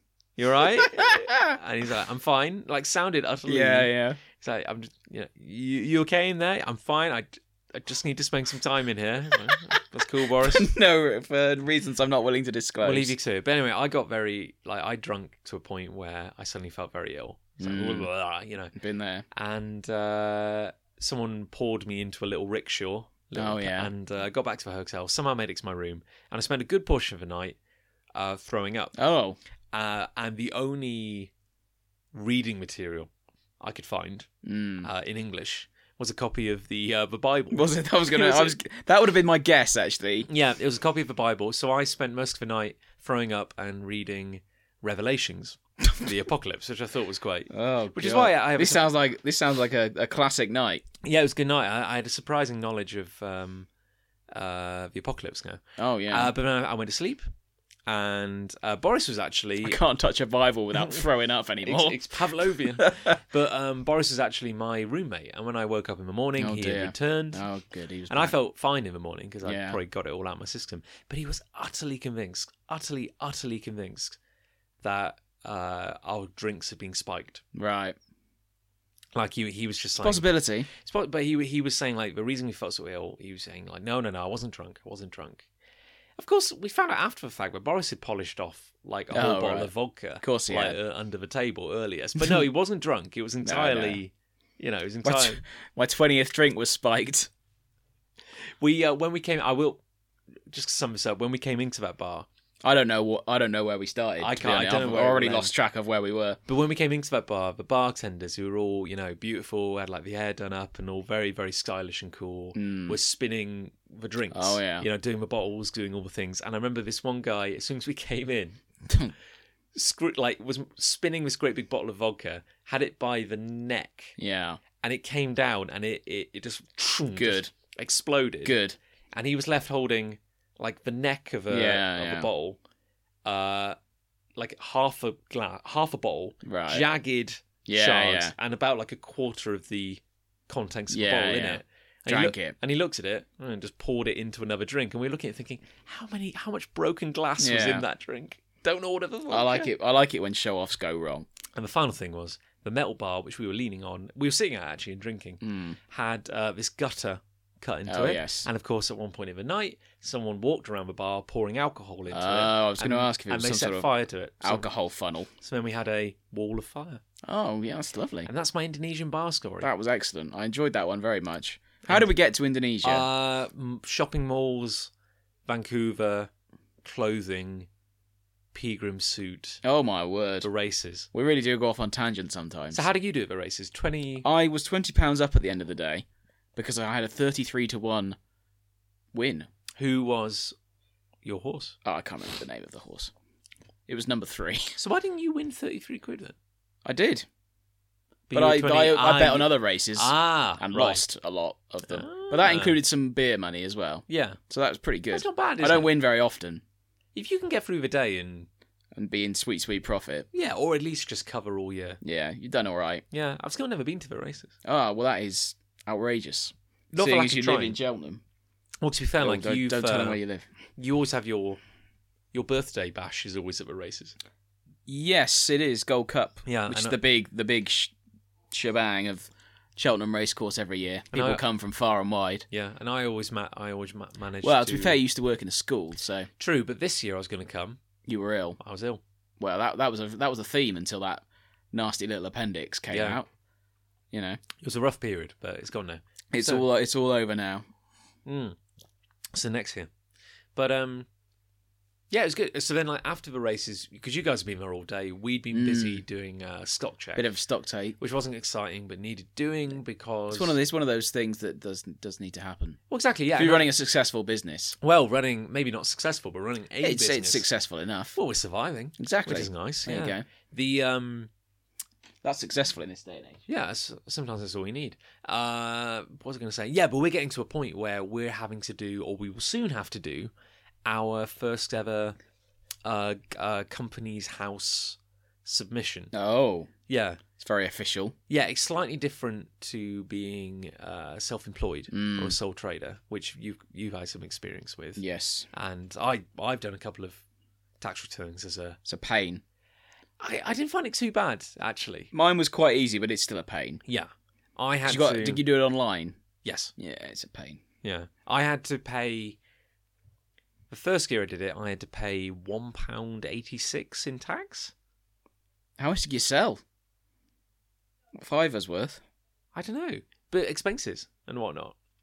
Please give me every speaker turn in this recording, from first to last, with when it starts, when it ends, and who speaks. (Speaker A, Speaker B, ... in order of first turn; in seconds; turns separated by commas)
Speaker A: 0.4-10.7, Speaker B: 0.8-1.6, Speaker B: 3.5-4.2, Speaker B: 10.4-13.1, Speaker A: 12.8-18.7, Speaker B: 17.6-18.1, Speaker B: 18.7-19.2, Speaker A: 19.3-27.6, Speaker B: 23.4-23.9, Speaker A: 28.1-28.9, Speaker B: 28.9-29.4, Speaker A: 29.7-31.3, Speaker A: 32.1-34.3, Speaker B: 34.4-34.9, Speaker A: 34.8-38.6, Speaker B: 37.5-40.3, Speaker A: 40.3-48.9, Speaker B: 47.5-50.8, Speaker A: 51.0-53.7, Speaker A: 54.3-57.2, Speaker B: 55.8-56.3, Speaker A: 57.9-59.8, Speaker B: 59.6-63.1, Speaker A: 60.7-61.1, Speaker A: 61.6-67.5, Speaker B: 66.4-68.3, Speaker A: 68.1-74.2, Speaker B: 69.4-69.8, Speaker A: 74.8-77.4, Speaker B: 77.5-78.0, Speaker A: 79.1-85.5, Speaker B: 80.0-80.7, Speaker A: 86.2-95.4, Speaker B: 89.1-90.8, Speaker B: 93.4-94.0, Speaker B: 95.0-97.3, Speaker A: 98.6-99.8, Speaker A: 100.5-102.2, Speaker B: 102.6-106.4, Speaker A: 104.2-105.5, Speaker A: 106.5-118.6, Speaker B: 112.5-113.0, Speaker B: 114.3-114.8, Speaker A: 119.7-124.2, Speaker B: 124.2-124.6, Speaker A: 124.8-128.6, Speaker B: 127.2-127.5, Speaker B: 128.4-128.8, Speaker A: 129.1-132.6, Speaker B: 131.5-132.3, Speaker A: 133.2-133.8, Speaker A: 134.4-149.7, Speaker B: 136.4-136.8, Speaker B: 137.7-138.3, Speaker B: 140.9-142.5, Speaker B: 147.4-147.8, Speaker B: 149.3-151.3, Speaker A: 151.6-164.7, Speaker B: 155.4-155.8, Speaker B: 157.9-158.5, Speaker B: 162.1-163.9, Speaker B: 164.4-165.3, Speaker A: 165.4-167.0, Speaker B: 167.2-168.3, Speaker A: 168.2-169.7, Speaker B: 169.6-173.1, Speaker A: 171.8-172.1, Speaker A: 172.8-174.9, Speaker A: 175.4-176.3, Speaker A: 176.8-177.7, Speaker A: 178.5-179.6, Speaker B: 179.6-180.5, Speaker A: 180.4-181.1, Speaker B: 181.1-182.8, Speaker A: 182.7-184.3, Speaker B: 184.2-186.0, Speaker B: 186.6-188.2, Speaker B: 189.1-189.5, Speaker A: 189.8-190.6, Speaker A: 191.2-191.8, Speaker B: 191.8-193.1, Speaker B: 193.9-194.7, Speaker A: 194.8-196.3, Speaker B: 196.8-197.2, Speaker A: 198.3-201.0, Speaker B: 198.3-206.6, Speaker A: 201.8-202.8, Speaker A: 204.1-204.4, Speaker A: 205.1-205.9, Speaker A: 207.1-208.5, Speaker B: 208.9-210.3, Speaker A: 210.3-212.0, Speaker B: 212.0-213.0, Speaker A: 213.1-214.5, Speaker B: 214.6-218.2, Speaker A: 216.9-217.8, Speaker A: 218.8-220.2, Speaker B: 219.2-220.5, Speaker A: 220.8-221.6, Speaker A: 222.3-224.2, Speaker B: 224.8-227.9, Speaker A: 226.4-227.0, Speaker B: 228.5-232.4, Speaker A: 231.1-231.4, Speaker A: 232.5-235.0, Speaker B: 234.4-236.3, Speaker A: 236.4-237.8, Speaker B: 238.1-238.6, Speaker A: 238.6-239.0, Speaker B: 239.4-243.2, Speaker A: 242.9-243.2, Speaker B: 244.1-244.4, Speaker A: 244.6-246.7, Speaker B: 246.3-247.7, Speaker A: 248.2-248.6, Speaker A: 249.3-249.9, Speaker A: 250.5-251.1, Speaker A: 252.1-257.3, Speaker B: 255.5-256.0, Speaker B: 257.1-258.0, Speaker A: 258.0-260.6, Speaker B: 260.3-262.8, Speaker A: 262.9-263.7, Speaker B: 263.4-264.8, Speaker A: 264.8-267.4, Speaker B: 266.8-268.2, Speaker A: 268.1-271.3, Speaker B: 269.0-270.2, Speaker B: 272.2-273.4, Speaker A: 273.5-280.3, Speaker A: 280.9-282.1, Speaker A: 282.8-286.1, Speaker B: 286.1-286.7, Speaker A: 286.9-287.2, Speaker B: 287.4-288.1, Speaker A: 288.3-297.2, Speaker B: 291.9-292.4, Speaker B: 294.9-295.5, Speaker A: 297.8-298.8, Speaker B: 298.9-299.4, Speaker A: 300.2-302.1, Speaker B: 302.1-303.8, Speaker A: 303.9-305.4, Speaker B: 304.8-306.2, Speaker A: 306.4-306.7, Speaker B: 306.8-307.6, Speaker A: 307.8-309.4, Speaker A: 310.7-314.7, Speaker B: 315.8-316.6, Speaker B: 318.1-319.0, Speaker A: 319.5-321.8